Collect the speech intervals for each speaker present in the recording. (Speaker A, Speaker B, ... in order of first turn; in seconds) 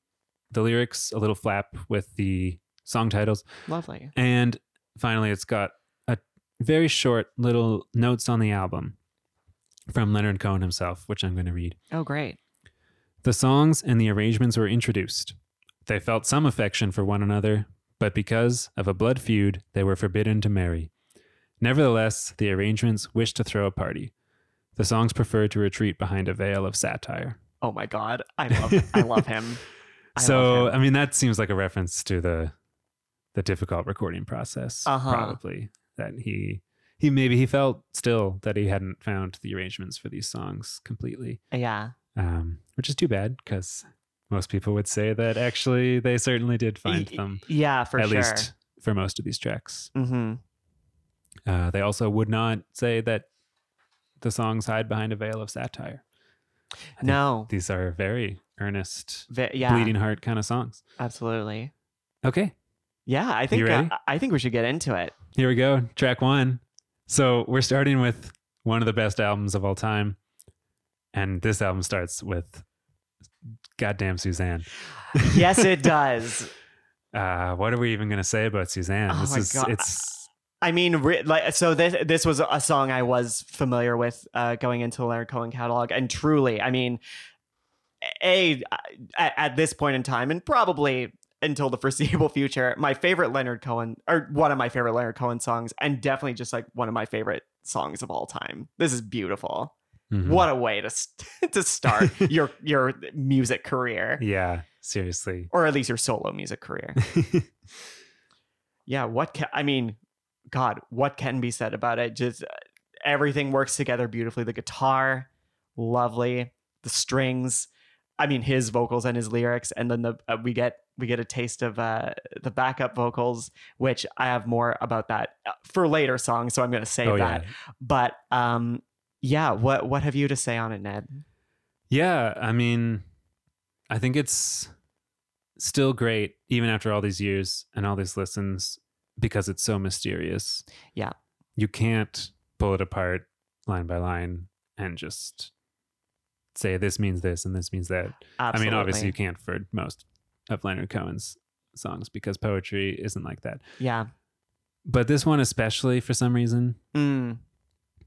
Speaker A: 0.5-3.5, 4.1-8.9, 9.9-11.8, 13.2-20.9, 21.6-24.1, 24.8-27.4, 28.5-29.2, 30.1-32.5, 33.3-41.4, 42.1-47.4, 48.0-49.9, 51.5-53.3, 54.2-56.0, 57.0-60.8, 62.2-62.5, 63.5-63.9, 65.3-70.2, 71.1-72.6, 73.8-75.6, 77.1-80.2, 100.1-100.5, 104.2-105.5, 107.0-107.5, 127.0-127.5, 131.9-133.0, 133.9-134.7, 135.6-140.6, 141.6-145.5, 146.5-153.6, 154.8-156.8
Speaker B: 3.7-4.1, 11.9-12.4, 27.6-29.6, 30.1-30.7, 34.9-35.4, 41.5-41.9, 46.9-48.5, 49.9-50.4, 57.0-57.5, 59.3-59.9, 61.0-61.7, 63.1-65.2, 75.2-76.5, 79.1-79.9, 80.6-87.0, 88.0-104.2, 105.5-107.0, 108.9-110.0, 110.5-112.5, 113.0-131.2, 148.4-149.1, 153.8-154.1, 156.9-157.4